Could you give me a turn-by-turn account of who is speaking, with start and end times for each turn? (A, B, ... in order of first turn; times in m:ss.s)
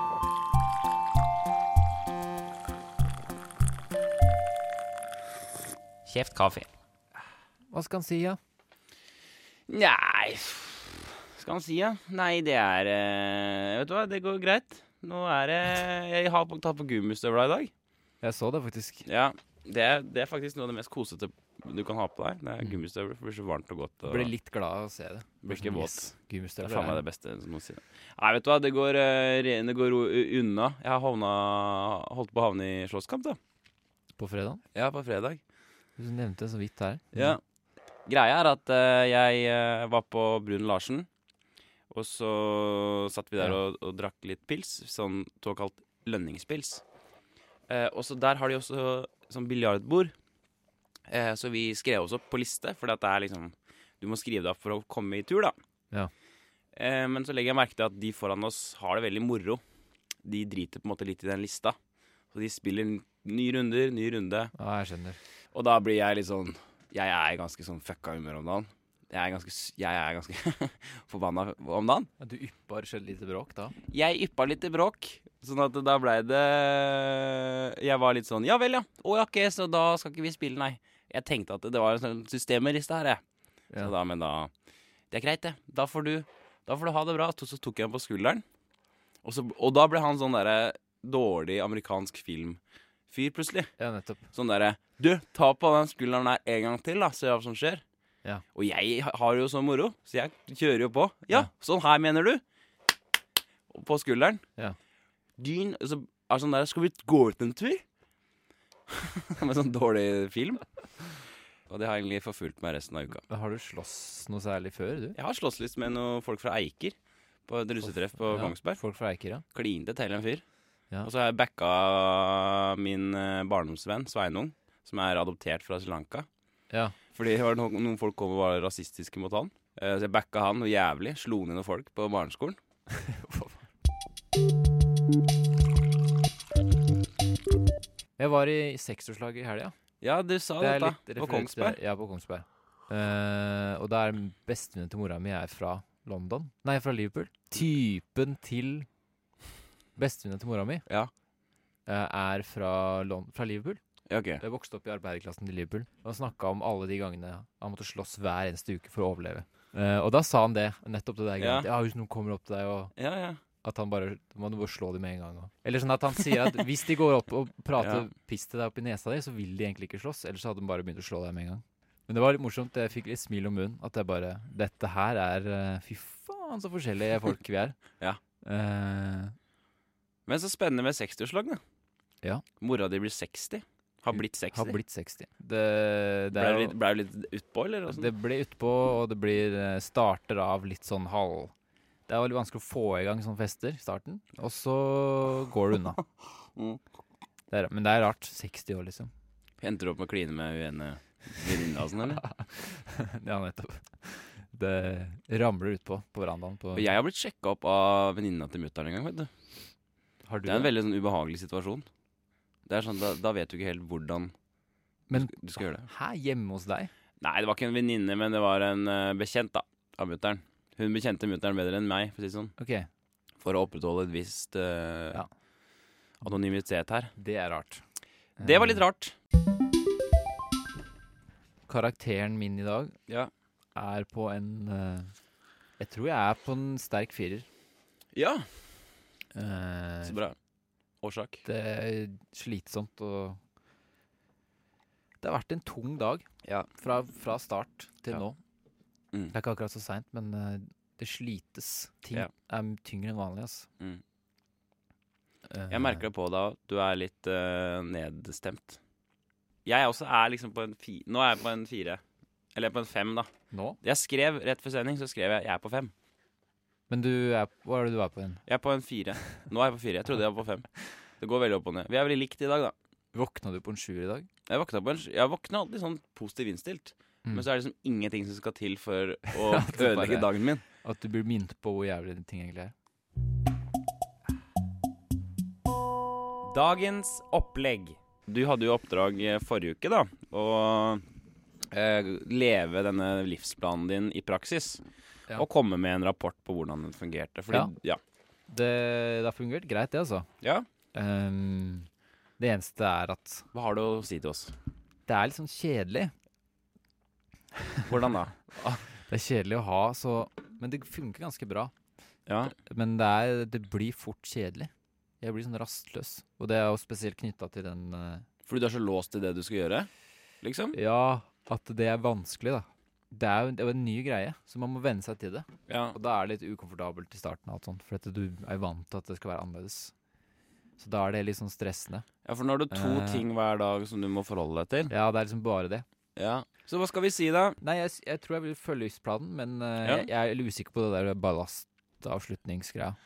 0:06.0-0:06.7 A
0:07.7-0:08.4 B
0:09.7-0:17.7 A
0:18.2-0:19.0 B
0:19.0-0:24.3 A
0:24.0-0:27.0 B
0:25.4-0:33.4 A
0:34.2-0:34.6 B
0:34.7-0:35.4 A
0:36.0-0:37.4 B
0:37.1-0:37.4 A
0:38.1-0:41.1 A
0:41.9-0:46.8 A
0:47.7-0:50.1 A
0:51.1-0:55.5 A
0:56.7-0:59.6 A
1:00.2-1:01.7 A
1:02.3-1:04.5 A
1:04.5-1:05.2 B
1:05.5-1:12.1 A
1:12.2-1:13.8 B
1:13.9-1:23.2 A
1:23.8-1:24.5 A
1:25.1-1:28.4 A
1:29.2-1:33.7 A
1:33.8-1:34.3 B
1:34.3-1:37.8 A
1:38.5-1:42.4 A
1:43.7-1:44.4 A
1:45.4-1:47.8 A
1:48.9-1:51.1 A
1:51.7-1:53.2 A
1:53.3-1:55.2 B
1:55.1-1:57.0 A
1:57.5-1:58.8 A
1:58.3-1:59.4 B
1:59.5-2:00.4 A
2:01.0-2:06.3 A
2:06.7-2:07.0 B
2:07.1-2:12.6 A
2:12.9-2:13.6 B
2:18.2-2:19.7 B
2:20.0-2:21.8 A
2:20.6-2:28.9 B
2:30.0-2:30.8 B
2:31.8-2:33.8 B
2:34.1-2:34.4 A
2:34.4-2:42.9 B
2:41.4-2:41.7 A
2:43.0-2:43.4 A
2:43.6-2:57.8 B
2:47.8-2:48.1 A
2:58.4-2:59.4 B
3:00.3-3:01.6 A
3:02.6-3:04.8 A
3:04.1-3:06.7 B
3:06.3-3:08.1 A
3:07.9-3:11.5 B
3:12.1-3:16.0 B
3:17.5-3:19.1 B
3:19.6-3:22.2 A
3:21.9-3:26.9 B
3:26.7-3:29.3 A
3:30.2-3:30.7 B
3:30.4-3:31.8 A
3:32.7-3:34.3 A
3:35.1-3:36.9 B
3:35.1-3:35.9 A
3:37.2-3:42.5 A
3:42.6-3:42.9 B
3:43.4-3:45.2 A
3:46.2-3:47.1 A
3:47.2-3:47.8 B
3:48.4-3:48.8 B
3:48.4-3:49.1 A
3:51.7-3:53.0 B
3:53.8-3:55.1 B
3:55.8-3:57.5 B
3:58.1-3:58.5 A
3:59.3-4:00.2 B
4:00.0-4:00.4 A
4:01.0-4:01.4 A
4:01.4-4:03.4 B
4:05.2-4:06.2 B
4:06.4-4:06.7 A
4:06.8-4:08.4 B
4:09.3-4:13.7 B
4:15.5-4:16.0 B
4:15.7-4:18.8 A
4:19.6-4:22.0 A
4:22.5-4:23.3 A
4:23.5-4:23.8 B
4:23.8-4:25.9 A
4:26.9-4:28.4 B
4:28.4-4:32.7 A
4:33.1-4:34.3 B
4:34.5-4:40.6 A
4:39.3-4:40.3 B
4:40.8-4:42.7 B
4:46.5-4:51.0 A
4:51.7-4:54.8 A
4:55.3-4:58.0 A
4:58.5-5:00.3 B
5:00.4-5:00.6 A
5:00.9-5:03.5 B
5:03.5-5:04.5 A
5:05.1-5:06.1 B
5:07.8-5:08.8 A
5:08.6-5:11.7 B
5:12.3-5:12.6 A
5:12.5-5:18.2 B
5:18.5-5:19.9 A
5:20.4-5:20.8 A
5:20.7-5:29.9 B
5:25.7-5:26.0 A
5:30.8-5:32.1 B
5:32.2-5:34.9 A
5:32.7-5:33.3 B
5:34.9-5:35.8 B
5:36.2-5:37.6 A
5:37.6-5:43.0 B
5:39.8-5:40.1 A